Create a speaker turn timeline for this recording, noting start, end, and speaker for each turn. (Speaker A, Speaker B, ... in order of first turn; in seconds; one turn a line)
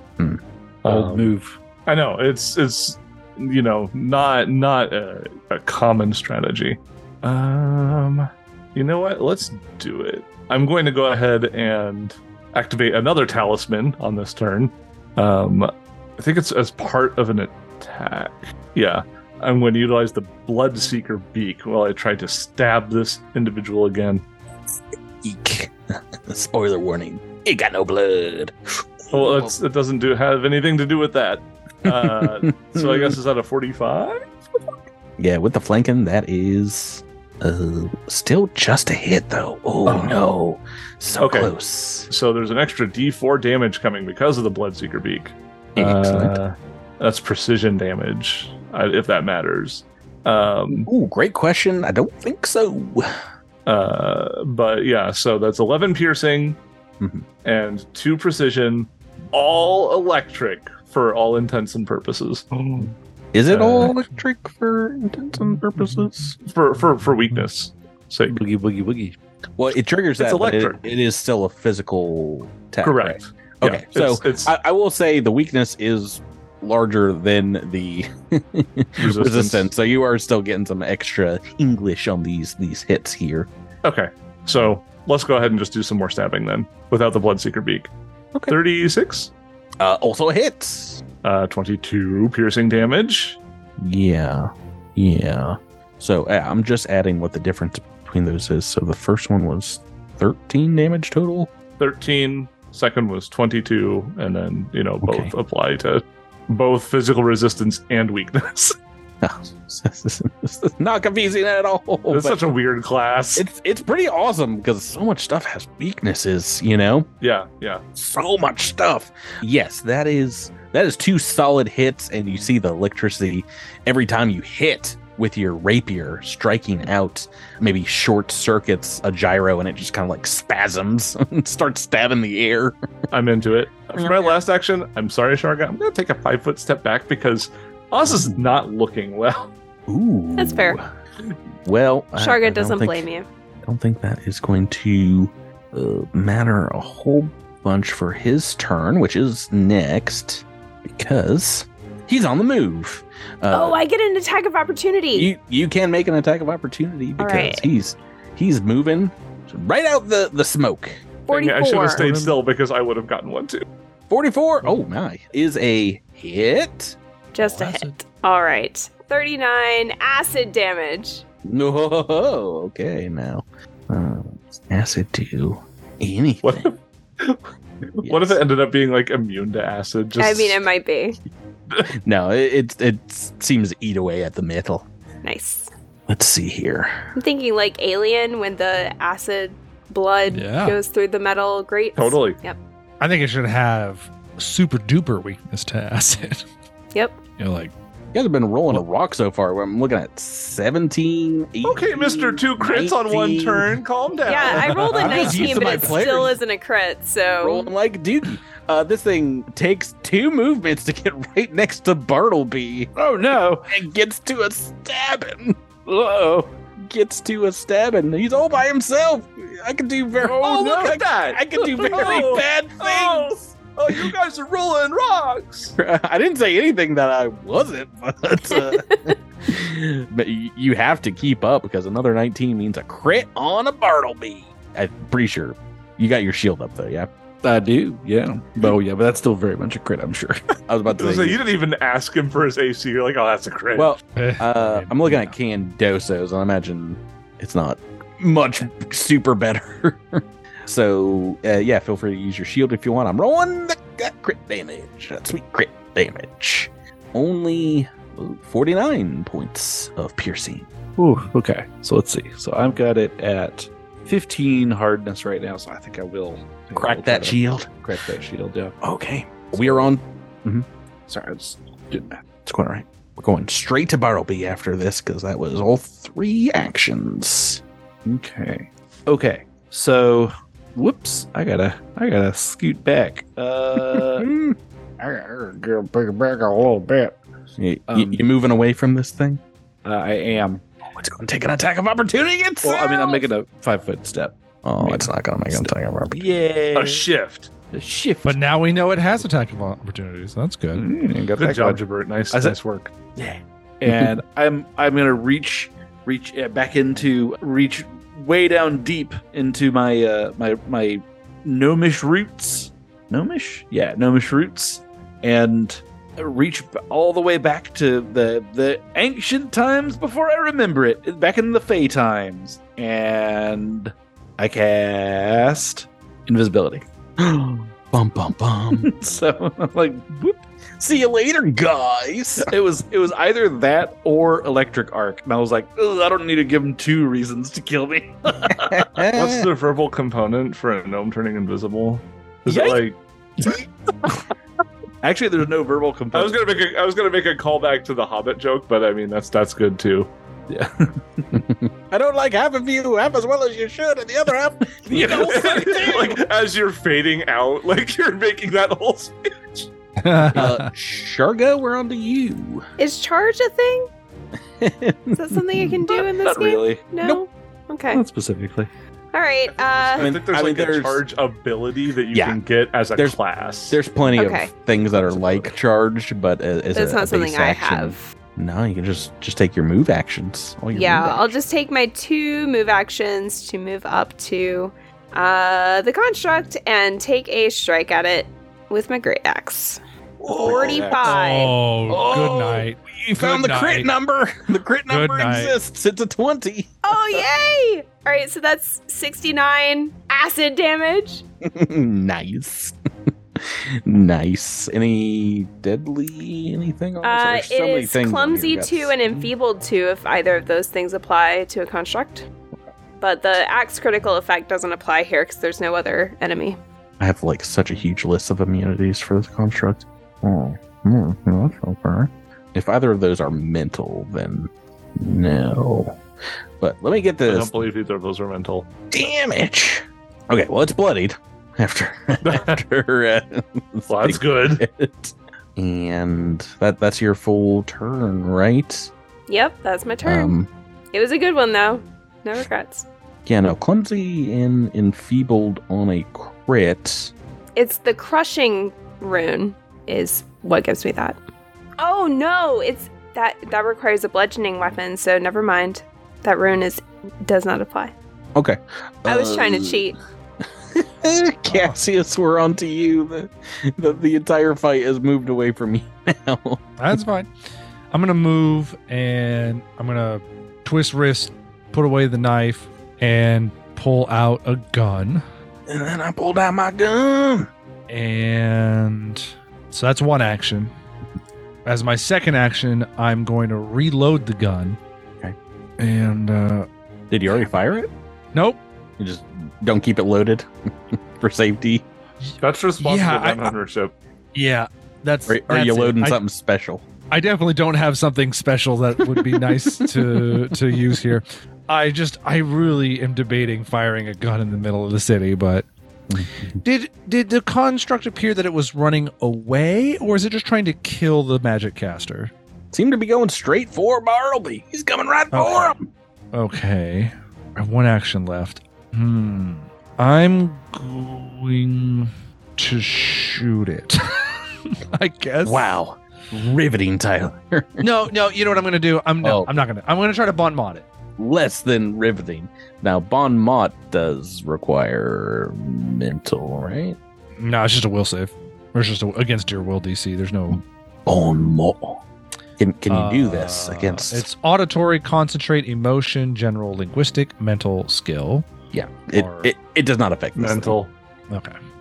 Speaker A: 0.8-1.3
Speaker B: 0.9-1.6
Speaker A: 1.9-24.2
Speaker C: 25.2-29.5
Speaker A: 29.1-34.2
Speaker C: 31.8-33.2
Speaker C: 35.2-42.1
Speaker A: 39.9-40.2
Speaker A: 41.2-41.5
Speaker A: 42.1-50.9
Speaker C: 45.8-46.4
Speaker C: 50.9-53.1
Speaker A: 53.7-56.6
Speaker C: 57.0-57.3
Speaker A: 57.5-62.9
Speaker C: 63.3-66.4
Speaker A: 63.5-64.0
Speaker A: 66.4-68.4
Speaker B: 68.3-69.2
Speaker C: 69.6-83.5
Speaker A: 70.2-70.8
Speaker A: 72.8-74.5
Speaker A: 79.0-79.7
Speaker A: 83.8-87.9
Speaker A: 88.5-89.3
Speaker C: 89.8-91.0
Speaker A: 91.2-93.4
Speaker C: 93.8-101.5
Speaker A: 101.8-108.8
Speaker C: 105.0-105.3
Speaker C: 109.2-112.4
Speaker A: 112.1-113.5
Speaker C: 113.4-117.1
Speaker A: 117.2-117.8
Speaker C: 118.0-132.8
Speaker A: 133.1-139.5
Speaker C: 134.0-134.4
Speaker C: 138.1-138.4
Speaker C: 139.9-140.8
Speaker D: 140.4-140.8
Speaker C: 141.7-143.1
Speaker D: 142.2-143.2
Speaker C: 143.7-153.8
Speaker D: 153.5-155.3
Speaker C: 155.1-161.1
Speaker D: 157.2-157.7
Speaker D: 161.3-162.0
Speaker A: 161.3-163.7
Speaker E: 161.9-162.4
Speaker C: 164.1-167.0
Speaker D: 167.3-171.2
Speaker E: 167.4-168.0
Speaker C: 171.5-176.7
Speaker A: 176.4-177.4
Speaker A: 178.0-180.6
Speaker C: 178.0-178.4
Speaker D: 180.2-181.2
Speaker C: 181.9-184.9
Speaker D: 185.2-185.7
Speaker C: 186.1-187.0
Speaker D: 187.2-192.6
Speaker E: 190.3-190.8
Speaker A: 192.0-192.4
Speaker E: 193.0-196.5
Speaker D: 196.9-197.2
Speaker E: 197.4-197.7
Speaker C: 198.1-203.8
Speaker A: 201.6-205.6
Speaker D: 204.3-207.7
Speaker C: 204.4-206.4
Speaker C: 207.4-212.9
Speaker B: 213.0-213.7
Speaker C: 213.7-215.6
Speaker B: 215.9-216.5
Speaker C: 216.8-224.1
Speaker B: 220.2-221.0
Speaker A: 220.4-225.8
Speaker B: 221.5-222.3
Speaker C: 225.8-237.1
Speaker D: 228.7-229.1
Speaker B: 237.4-240.4
Speaker C: 240.7-241.4
Speaker A: 240.9-243.9
Speaker C: 243.8-260.7
Speaker E: 244.2-245.3
Speaker B: 261.0-268.7
Speaker C: 266.8-267.7
Speaker C: 268.8-270.7
Speaker B: 269.5-269.9
Speaker B: 271.1-272.2
Speaker C: 272.5-277.6
Speaker B: 278.1-284.3
Speaker C: 283.8-284.6
Speaker B: 285.0-287.1
Speaker C: 287.6-289.4
Speaker B: 287.9-288.2
Speaker B: 289.9-290.6
Speaker C: 290.9-293.3
Speaker B: 292.6-297.1
Speaker C: 294.6-296.3
Speaker A: 296.7-297.5
Speaker B: 297.7-298.4
Speaker E: 298.2-300.9
Speaker B: 300.7-302.6
Speaker A: 301.4-302.9
Speaker B: 303.2-326.9
Speaker C: 303.9-304.2
Speaker C: 327.2-328.9
Speaker B: 328.7-330.4
Speaker C: 330.8-332.5
Speaker B: 332.4-339.0
Speaker C: 338.5-339.5
Speaker A: 339.1-343.0
Speaker C: 342.5-342.8
Speaker B: 345.0-346.5
Speaker A: 346.1-350.1
Speaker B: 350.5-351.4
Speaker C: 351.3-356.2
Speaker B: 354.9-355.8
Speaker A: 355.0-359.7
Speaker E: 360.0-360.7
Speaker C: 360.3-362.6
Speaker D: 362.8-363.9
Speaker C: 364.6-365.8
Speaker D: 365.1-368.0
Speaker B: 365.9-366.9
Speaker B: 367.9-368.7
Speaker D: 369.1-370.1
Speaker A: 369.7-373.8
Speaker C: 370.0-371.0
Speaker C: 372.1-372.4
Speaker C: 373.7-381.4
Speaker D: 374.1-374.5
Speaker B: 374.9-375.6
Speaker D: 376.7-378.0
Speaker D: 380.7-389.8
Speaker C: 390.2-391.0
Speaker D: 390.4-391.5
Speaker B: 390.4-391.0
Speaker E: 391.0-393.9
Speaker C: 391.9-397.2
Speaker E: 394.9-395.6
Speaker D: 396.8-401.2
Speaker C: 401.4-402.8
Speaker C: 403.4-409.3
Speaker D: 407.0-412.3
Speaker D: 413.0-416.6
Speaker C: 417.0-426.0
Speaker C: 426.6-427.5
Speaker A: 427.3-428.7
Speaker C: 428.9-438.9
Speaker A: 432.2-432.6
Speaker A: 433.9-434.6
Speaker D: 439.3-440.3
Speaker C: 440.0-440.5
Speaker D: 440.9-442.9
Speaker C: 443.3-447.1
Speaker D: 447.6-451.2
Speaker D: 451.8-457.9
Speaker C: 458.4-459.9
Speaker D: 459.1-460.0
Speaker C: 460.7-466.6
Speaker E: 461.5-461.8
Speaker E: 466.8-467.3
Speaker E: 467.9-475.2
Speaker C: 475.7-477.5
Speaker E: 477.9-480.7
Speaker E: 481.7-484.8
Speaker E: 485.8-486.7
Speaker C: 487.1-487.9
Speaker E: 488.3-488.6
Speaker C: 489.0-491.9
Speaker E: 492.3-493.5
Speaker A: 492.4-493.9
Speaker E: 494.4-496.2
Speaker C: 495.3-496.9
Speaker E: 497.1-505.7
Speaker C: 499.1-500.6
Speaker C: 506.1-506.6
Speaker E: 506.6-512.3
Speaker C: 512.7-515.9
Speaker E: 515.3-515.7
Speaker E: 516.3-525.7
Speaker C: 525.4-527.9
Speaker E: 527.8-530.9
Speaker C: 529.2-529.5
Speaker C: 531.2-537.0
Speaker E: 537.4-540.6
Speaker C: 541.1-542.0
Speaker C: 542.6-544.2
Speaker E: 542.9-548.5
Speaker C: 548.7-550.8
Speaker E: 549.1-549.5
Speaker A: 550.4-550.9
Speaker E: 551.3-551.6